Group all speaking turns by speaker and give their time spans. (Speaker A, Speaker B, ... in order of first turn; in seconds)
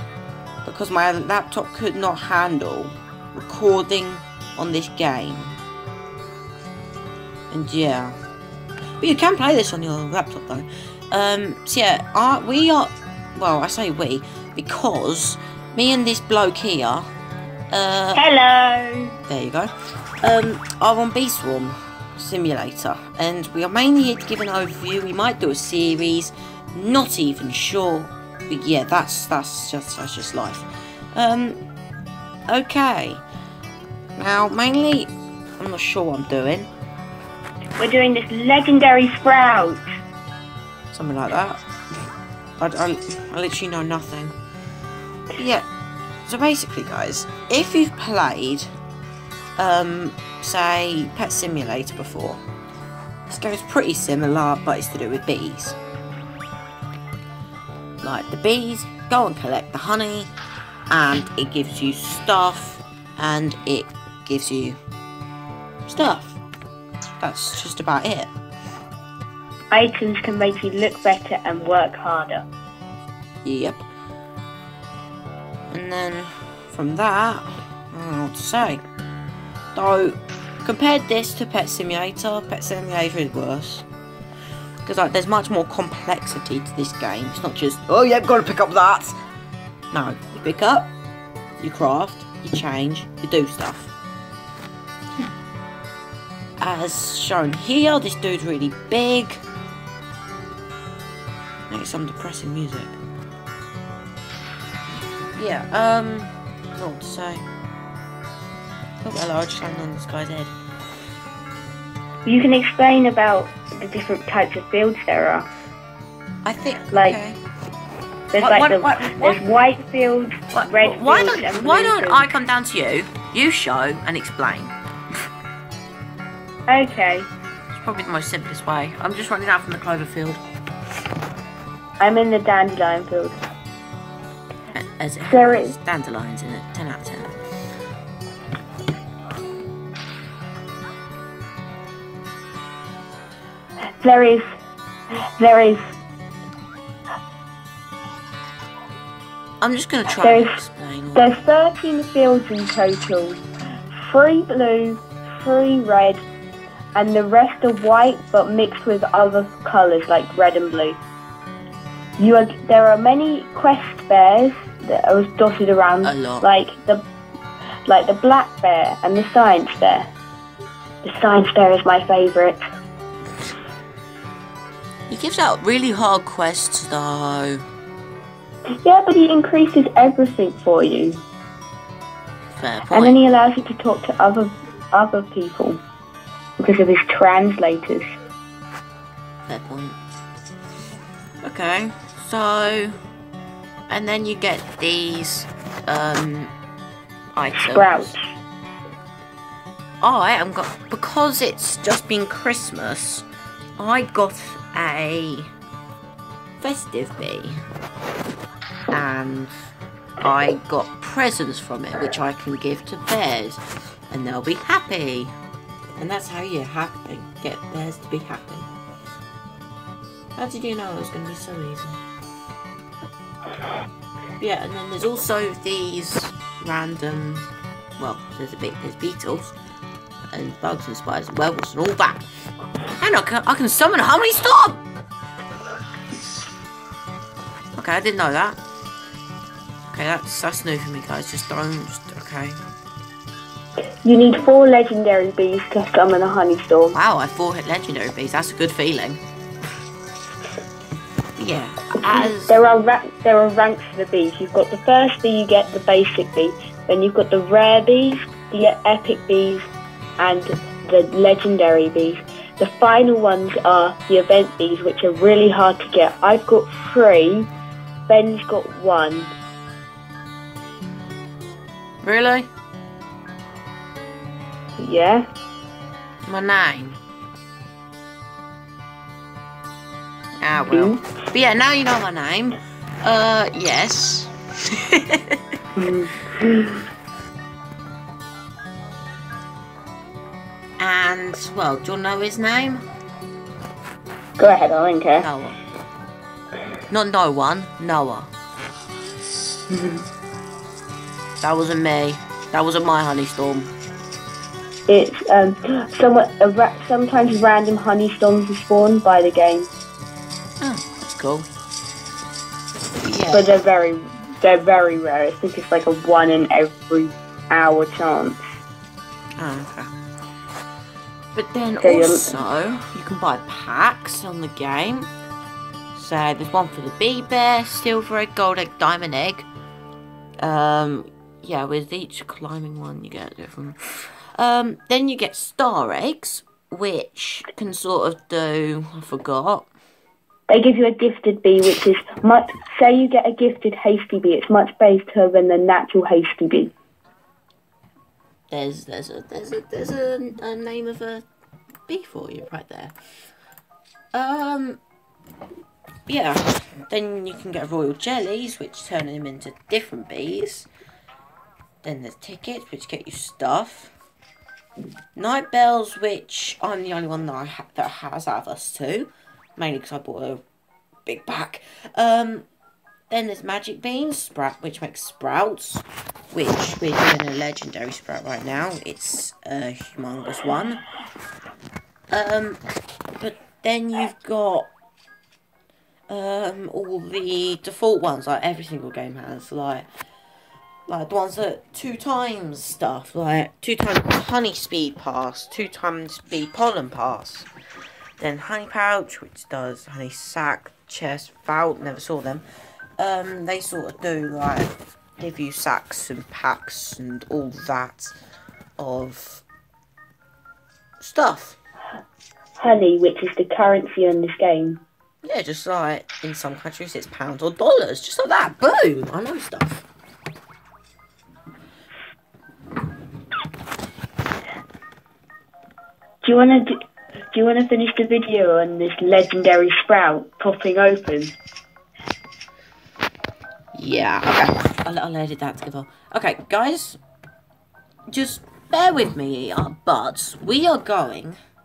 Speaker A: 0.6-5.6, 7.5-8.2, 9.0-17.1, 17.7-18.2, 19.3-31.6, 32.5-33.2, 34.2-36.7, 40.9-41.6, 42.6-44.4, 45.4-45.7, 46.3-48.7, 49.6-52.4, 53.3-55.8, 58.0-60.3, 60.9-64.8, 65.9-66.4, 67.2-68.3, 73.4-73.8, 75.7-78.8, 79.8-83.9, 84.8-89.2, 89.9-90.9, 91.6-93.9, 96.6-99.4, 101.7-103.0, 105.4-107.4, 109.0-110.5, 116.5-117.4, 118.4-119.4, 120.5-124.7, 127.7-130.4, 134.7-137.4, 149.6-151.3, 166.0-166.5, 175.1-177.6, 182.5-183.2, 189.5-190.0, 191.4-193.0, 193.9-196.5, 197.3-198.1, 200.0-203.3, 203.8-205.5, 206.6-207.5, 208.9-209.5, 210.2-215.3, 216.0-218.7, 220.4-222.0, 224.4-229.5, 230.3-232.2, 233.0-234.8, 237.8-238.6, 239.9-242.6, 246.9-249.2, 251.4-252.6, 272.0-272.5, 276.3-277.0, 280.4-285.4, 290.8-292.9, 295.2-295.6, 296.9-298.3, 301.4-303.7, 310.6-311.5, 313.0-313.4, 319.4-319.9, 321.4-325.1, 325.9-329.5, 330.4-339.7, 348.5-351.3, 351.9-352.9, 354.1-354.8, 356.1-360.7, 361.8-363.9, 365.1-370.4, 371.1-372.5, 373.1-380.8, 382.1-382.6, 383.2-384.7, 386.1-389.9, 390.9-397.5, 398.2-402.4, 403.0-408.1, 408.8-409.4, 411.0-411.6, 415.2-419.9, 433.8-437.0, 438.1-441.4
Speaker B: 18.1-19.2, 37.8-39.9, 69.7-72.5, 112.2-115.5, 116.9-117.2, 118.3-122.3, 126.7-127.3, 132.0-133.4, 135.2-135.7, 144.0-144.4, 145.4-145.8, 150.2-150.6, 151.2-153.4, 153.9-156.2, 156.9-161.0, 162.2-167.0, 167.9-170.1, 171.0-172.6, 178.8-181.2, 182.9-185.8, 186.6-188.1, 197.6-198.2, 244.0-247.0, 252.3-259.7, 260.2-267.5, 268.1-269.3, 274.8-275.3, 280.7-281.0, 285.8-286.8, 294.4-295.3, 299.7-300.0, 304.9-309.7, 313.3-318.4, 321.8-322.4, 340.5-346.7, 412.6-414.8, 426.2-426.8, 427.3-431.4